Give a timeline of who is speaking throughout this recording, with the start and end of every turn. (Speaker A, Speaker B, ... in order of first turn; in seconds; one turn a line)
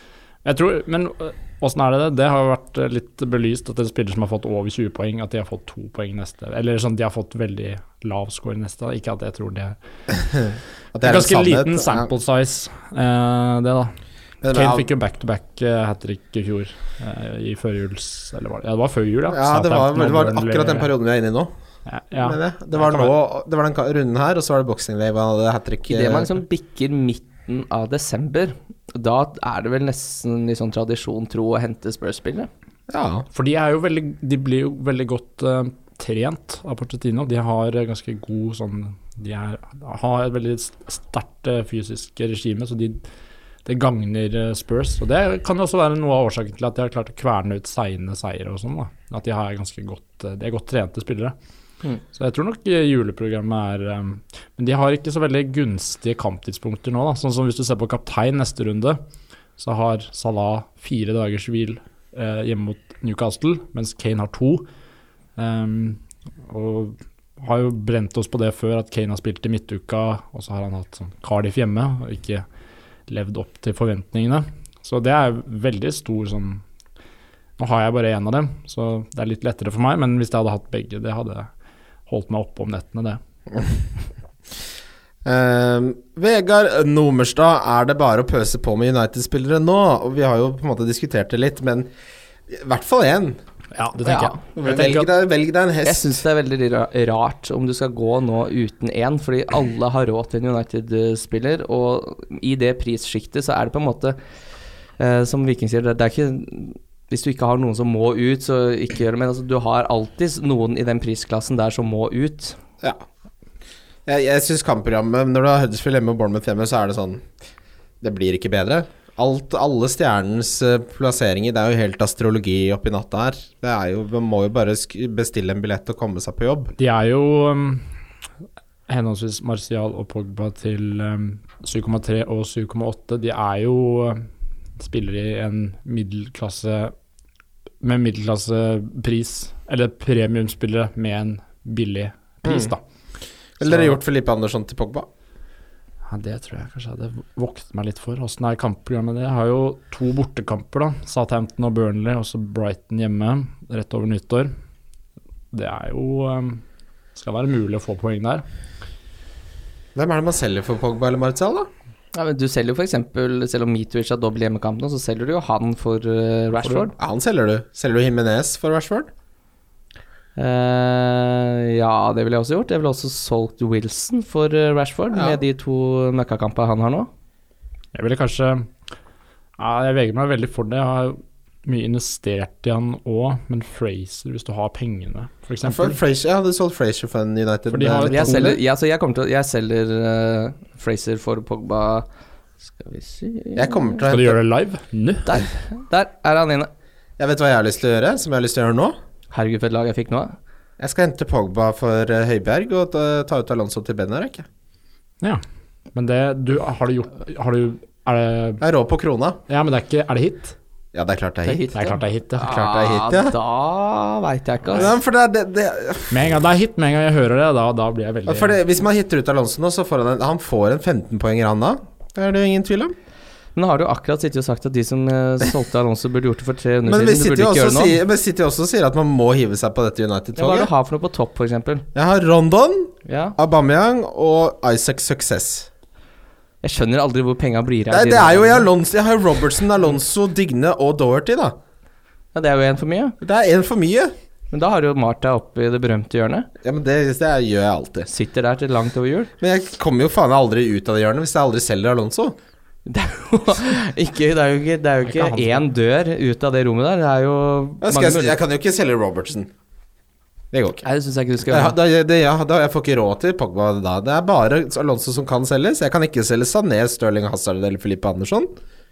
Speaker A: 0.5-9.8
Speaker B: 10.1-12.1
Speaker A: 11.0-13.9
Speaker B: 14.4-14.9
Speaker A: 14.5-20.9
Speaker B: 19.3-21.5
Speaker A: 21.9-23.1
Speaker B: 22.2-26.4
Speaker C: 25.9-32.5
Speaker B: 32.9-33.3
Speaker A: 33.3-43.0
Speaker A: 43.7-51.4
Speaker A: 52.1-59.0
Speaker A: 59.6-64.7
Speaker A: 65.4-72.5
Speaker A: 73.1-76.6
Speaker A: 77.6-81.5
Speaker A: 82.1-83.2
Speaker B: 85.2-91.9
Speaker B: 92.5-93.4
Speaker A: 93.7-95.1
Speaker C: 94.0-94.4
Speaker B: 94.6-96.2
Speaker C: 95.8-104.2
Speaker C: 105.0-112.6
Speaker B: 114.1-117.2
Speaker B: 118.0-126.7
Speaker A: 126.8-127.9
Speaker A: 128.9-134.3
Speaker A: 134.8-136.9
Speaker A: 137.8-142.8
Speaker B: 142.4-142.7
Speaker B: 143.6-145.1
Speaker A: 143.6-144.0
Speaker A: 146.1-154.5
Speaker A: 155.5-156.6
Speaker A: 157.2-158.4
Speaker B: 159.9-161.7
Speaker C: 162.1-166.9
Speaker A: 166.6-166.9
Speaker B: 167.0-169.1
Speaker C: 170.4-177.1
Speaker B: 175.1-175.4
Speaker A: 177.9-178.7
Speaker A: 179.6-186.0
Speaker B: 185.6-188.5
Speaker A: 187.7-188.6
Speaker C: 188.1-192.1
Speaker C: 192.8-194.0
Speaker B: 193.6-194.4
Speaker A: 194.1-195.5
Speaker C: 195.3-196.7
Speaker B: 197.2-199.0
Speaker C: 199.3-200.4
Speaker B: 200.8-204.5
Speaker A: 205.9-208.6
Speaker B: 208.6-209.4
Speaker A: 209.5-210.6
Speaker B: 210.9-211.7
Speaker C: 211.5-214.9
Speaker A: 211.7-212.6
Speaker B: 212.5-213.3
Speaker B: 214.7-216.3
Speaker A: 216.1-218.6
Speaker B: 218.3-222.9
Speaker C: 223.6-228.0
Speaker B: 226.9-230.7
Speaker C: 230.4-231.9
Speaker B: 231.9-235.7
Speaker C: 233.1-233.4
Speaker C: 236.6-238.7
Speaker B: 237.9-241.6
Speaker C: 242.3-243.2
Speaker B: 243.2-244.1
Speaker C: 244.5-246.5
Speaker B: 246.6-248.1
Speaker C: 248.1-249.3
Speaker B: 249.4-252.4
Speaker C: 252.9-258.4
Speaker A: 255.1-255.6
Speaker B: 257.8-259.5
Speaker B: 260.5-260.8
Speaker C: 260.8-261.8
Speaker B: 261.5-268.5